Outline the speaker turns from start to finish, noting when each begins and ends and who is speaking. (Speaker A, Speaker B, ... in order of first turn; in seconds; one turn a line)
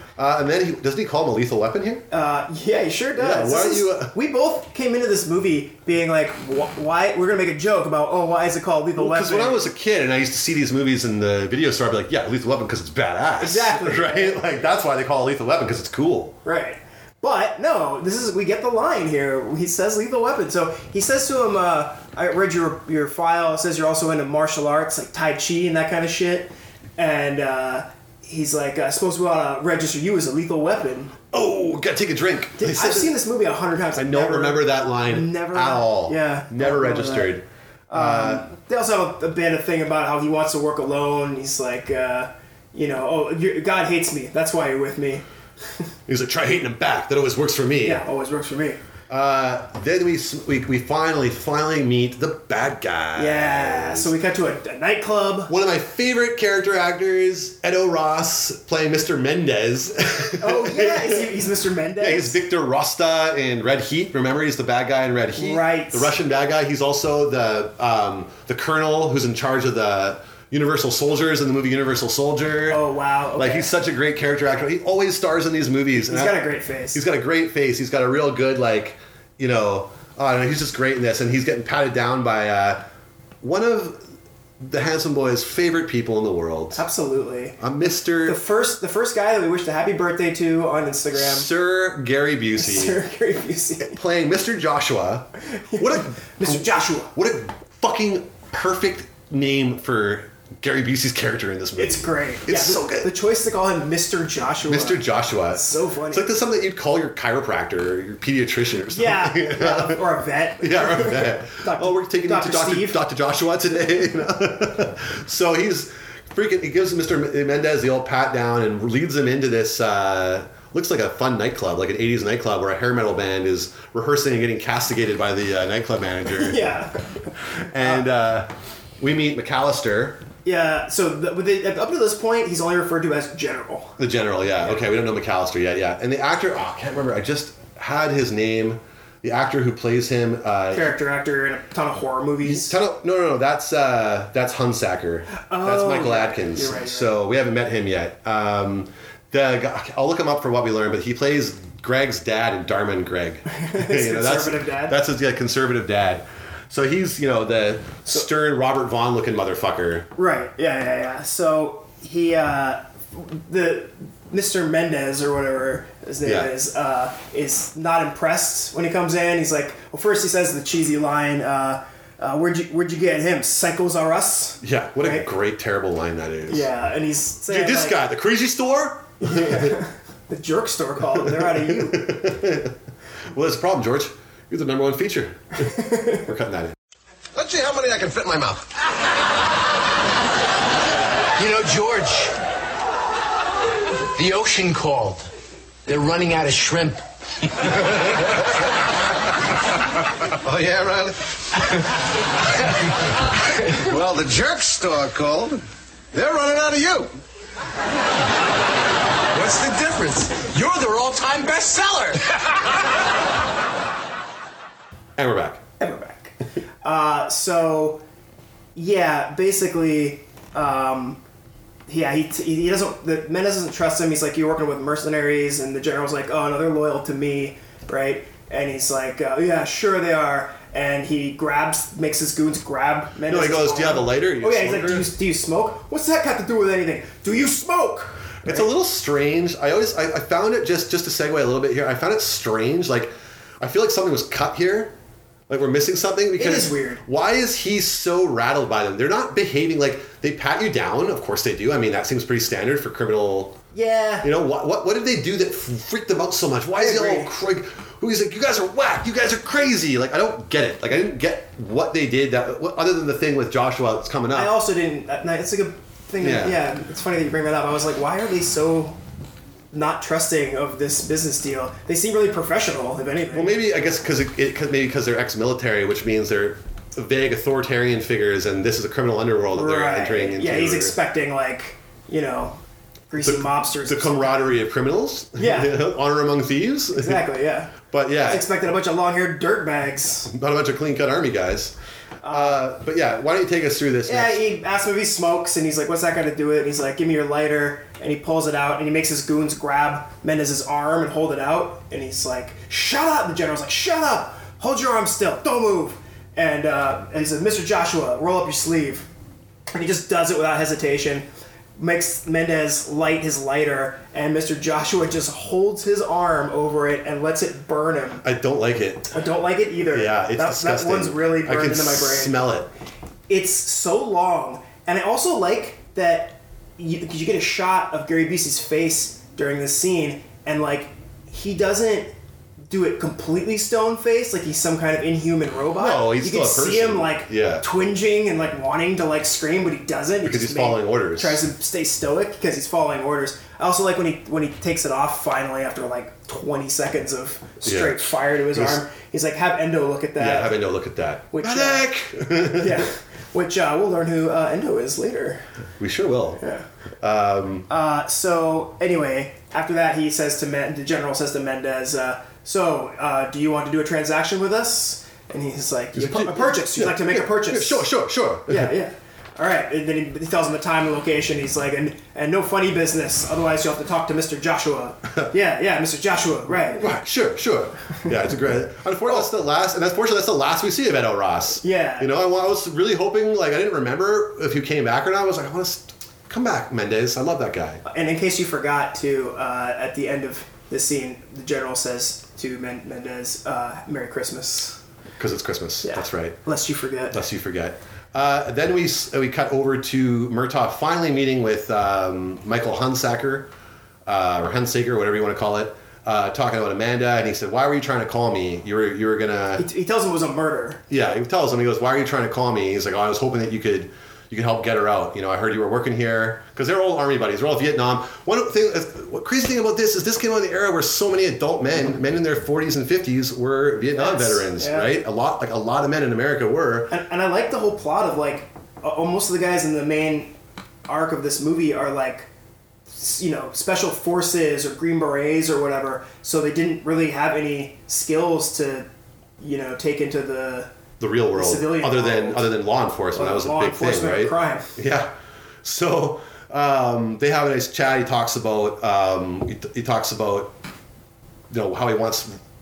Speaker A: 0.2-2.0
Speaker B: 2.1-9.6
Speaker A: 3.2-4.1
Speaker A: 8.9-16.4
Speaker B: 13.4-14.4
Speaker B: 16.4-31.2
Speaker A: 31.3-33.2
Speaker B: 32.6-37.4
Speaker A: 33.9-38.5
Speaker B: 37.9-45.2
Speaker A: 46.1-48.0
Speaker B: 47.8-48.8
Speaker A: 49.1-54.1
Speaker B: 53.1-55.5
Speaker A: 55.5-61.3
Speaker B: 60.4-62.4
Speaker A: 62.0-72.8
Speaker B: 65.3-66.1
Speaker B: 72.7-73.7
Speaker A: 73.3-82.8
Speaker B: 76.0-77.0
Speaker A: 83.4-84.0
Speaker A: 84.6-86.8
Speaker B: 86.7-87.6
Speaker A: 87.6-88.4
Speaker B: 88.2-91.5
Speaker A: 91.1-93.0
Speaker B: 92.6-94.0
Speaker A: 93.8-103.1
Speaker B: 95.7-97.1
Speaker B: 101.8-106.3
Speaker A: 104.6-110.0
Speaker B: 108.9-113.0
Speaker A: 110.6-126.6
Speaker B: 126.4-127.3
Speaker A: 127.6-130.2
Speaker B: 130.4-134.0
Speaker A: 134.0-141.0
Speaker B: 140.7-142.8
Speaker A: 142.4-160.1
Speaker B: 145.3-147.2
Speaker B: 153.5-155.0
Speaker B: 160.2-175.3
Speaker A: 166.2-166.5
Speaker A: 174.6-176.7
Speaker B: 176.5-178.0
Speaker A: 177.5-179.8
Speaker B: 179.2-182.2
Speaker A: 181.1-182.7
Speaker A: 183.3-186.8
Speaker B: 185.7-186.2
Speaker C: 187.3-188.7
Speaker C: 191.4-192.3
Speaker C: 194.2-195.3
Speaker C: 195.9-197.0
Speaker C: 197.6-198.3
Speaker C: 200.4-201.9
Speaker C: 203.5-205.6
Speaker C: 206.1-207.1
Speaker C: 209.3-212.2
Speaker A: 215.2-215.6
Speaker B: 215.8-218.0
Speaker B: 218.8-221.2
Speaker B: 221.9-238.7
Speaker A: 233.3-235.1
Speaker A: 238.4-244.9
Speaker A: 245.5-253.6
Speaker B: 246.3-247.0
Speaker B: 253.7-254.3
Speaker A: 254.2-264.6
Speaker B: 256.7-257.3
Speaker B: 264.3-269.0
Speaker A: 266.2-266.6
Speaker B: 269.7-273.6
Speaker A: 273.3-281.0
Speaker B: 279.5-282.6
Speaker B: 283.1-284.3
Speaker A: 283.2-287.3
Speaker B: 285.4-285.8
Speaker B: 286.9-290.3
Speaker A: 287.8-288.5
Speaker A: 290.3-291.7
Speaker B: 292.2-292.6
Speaker A: 292.3-294.4
Speaker B: 294.1-309.1
Speaker B: 309.7-318.2
Speaker A: 318.2-319.1
Speaker B: 319.1-322.4
Speaker A: 319.9-322.7
Speaker B: 323.3-332.1
Speaker B: 332.7-350.6
Speaker A: 335.7-337.6
Speaker A: 340.2-341.4
Speaker A: 347.6-348.8
Speaker A: 350.2-352.9
Speaker B: 351.3-351.9
Speaker B: 352.4-355.4
Speaker A: 355.8-356.4
Speaker B: 356.4-356.6
Speaker A: 357.0-357.7
Speaker B: 357.7-367.9
Speaker A: 365.9-368.7
Speaker B: 368.5-376.9
Speaker A: 376.7-387.8
Speaker B: 381.6-382.1
Speaker B: 387.8-394.8
Speaker A: 395.2-396.4
Speaker B: 395.8-397.2
Speaker A: 397.1-403.5
Speaker A: 404.1-409.6
Speaker B: 409.6-410.8
Speaker A: 410.9-426.9
Speaker B: 423.9-424.9
Speaker B: 426.9-430.3
Speaker B: 430.9-432.3
Speaker B: 432.9-438.9
Speaker B: 439.4-440.7
Speaker A: 441.0-450.5
Speaker B: 441.3-442.5
Speaker B: 443.1-444.7
Speaker A: 451.5-452.4